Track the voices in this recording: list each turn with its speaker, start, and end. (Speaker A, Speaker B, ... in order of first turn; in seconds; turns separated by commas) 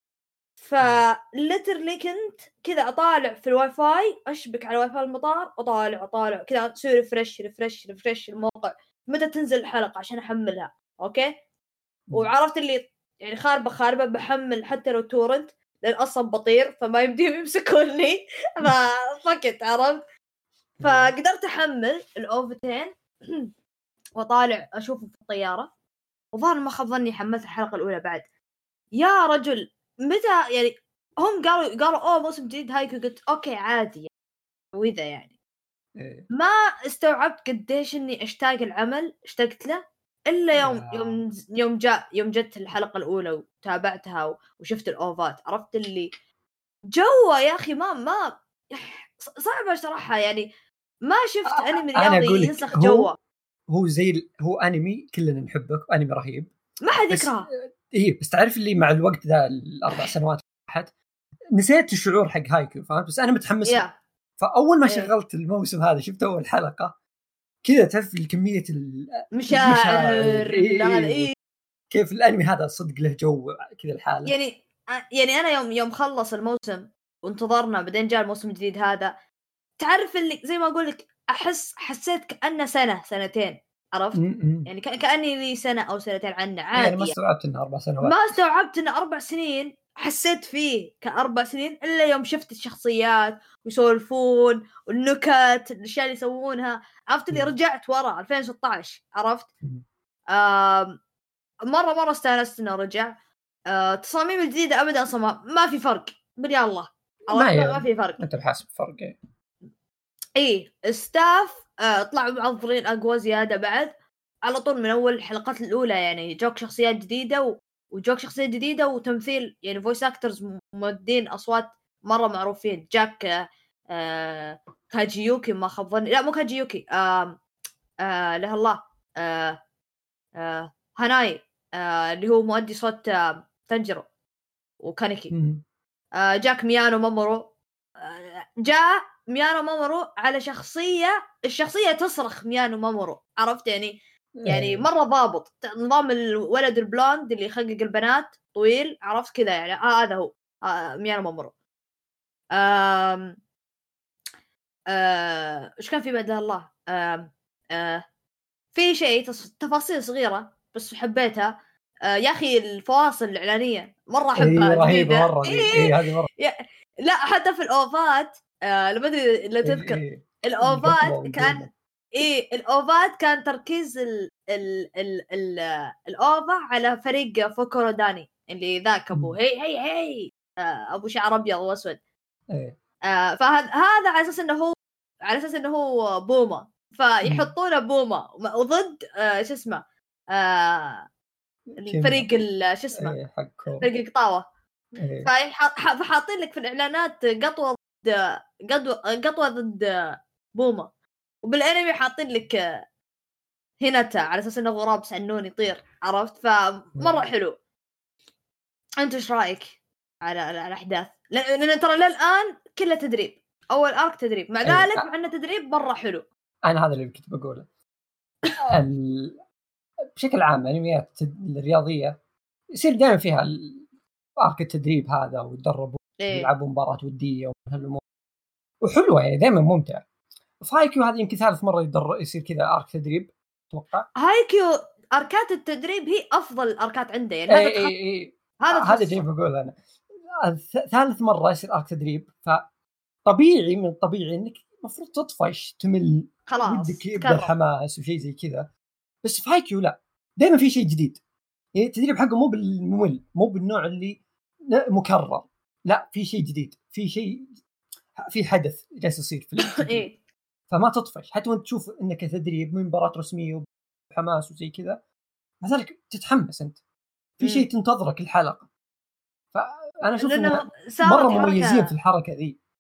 Speaker A: 0.6-11.3, Speaker A: 12.1-20.0, Speaker B: 20.8-21.1, Speaker A: 20.8-23.5, Speaker A: 24.2-25.7, Speaker A: 26.4-28.2, Speaker A: 29.0-34.1, Speaker A: 34.8-35.3, Speaker B: 36.0-36.3, Speaker A: 36.3-46.1, Speaker B: 40.6-41.2, Speaker A: 47.0-50.5, Speaker A: 51.1-53.1, Speaker B: 51.5-53.1, Speaker B: 53.7-56.5, Speaker A: 56.8-57.5, Speaker B: 57.1-60.9, Speaker B: 61.5-63.9, Speaker A: 63.6-63.9, Speaker B: 64.4-66.9, Speaker B: 67.7-71.3, Speaker A: 69.3-71.3, Speaker B: 71.9-74.3, Speaker A: 74.3-79.2, Speaker A: 79.8-87.1, Speaker B: 84.2-84.7, Speaker B: 86.8-88.3, Speaker A: 88.0-99.5, Speaker A: 100.3-101.0, Speaker A: 101.7-103.2, Speaker A: 103.7-108.2, Speaker B: 107.3-109.2, Speaker A: 110.4-113.9, Speaker A: 114.5-123.3, Speaker A: 123.9-127.4, Speaker A: 128.0-129.6, Speaker A: 130.4-134.1, Speaker A: 134.8-135.3, Speaker B: 135.3-135.6, Speaker A: 136.2-151.5, Speaker B: 144.4-144.9, Speaker A: 152.6-153.4, Speaker A: 154.9-158.0, Speaker A: 158.8-161.5, Speaker A: 162.1-171.6, Speaker B: 164.4-166.3, Speaker B: 169.7-171.7, Speaker A: 172.2-182.0, Speaker A: 183.1-189.8, Speaker B: 187.2-187.5, Speaker A: 190.3-191.1, Speaker B: 191.7-192.3, Speaker A: 191.8-193.2, Speaker B: 193.0-193.9, Speaker A: 193.8-194.4, Speaker B: 195.0-195.3, Speaker A: 195.2-200.9, Speaker A: 201.4-202.6, Speaker A: 203.8-207.6, Speaker A: 209.0-216.2, Speaker B: 214.7-215.1, Speaker B: 216.7-217.7, Speaker B: 218.7-219.4, Speaker B: 220.2-222.2, Speaker B: 222.7-223.8, Speaker B: 224.4-228.0, Speaker A: 226.2-226.5, Speaker B: 228.8-230.0, Speaker B: 230.6-234.1, Speaker A: 234.2-237.9, Speaker B: 237.5-239.8, Speaker A: 238.6-239.2, Speaker B: 240.3-242.7, Speaker B: 243.3-248.7, Speaker A: 246.5-247.5, Speaker B: 249.2-251.2, Speaker B: 251.8-257.6, Speaker B: 258.2-260.1, Speaker A: 259.7-260.2, Speaker B: 260.7-265.0, Speaker B: 265.6-266.8, Speaker B: 267.4-268.7, Speaker B: 269.5-272.6, Speaker A: 270.2-271.9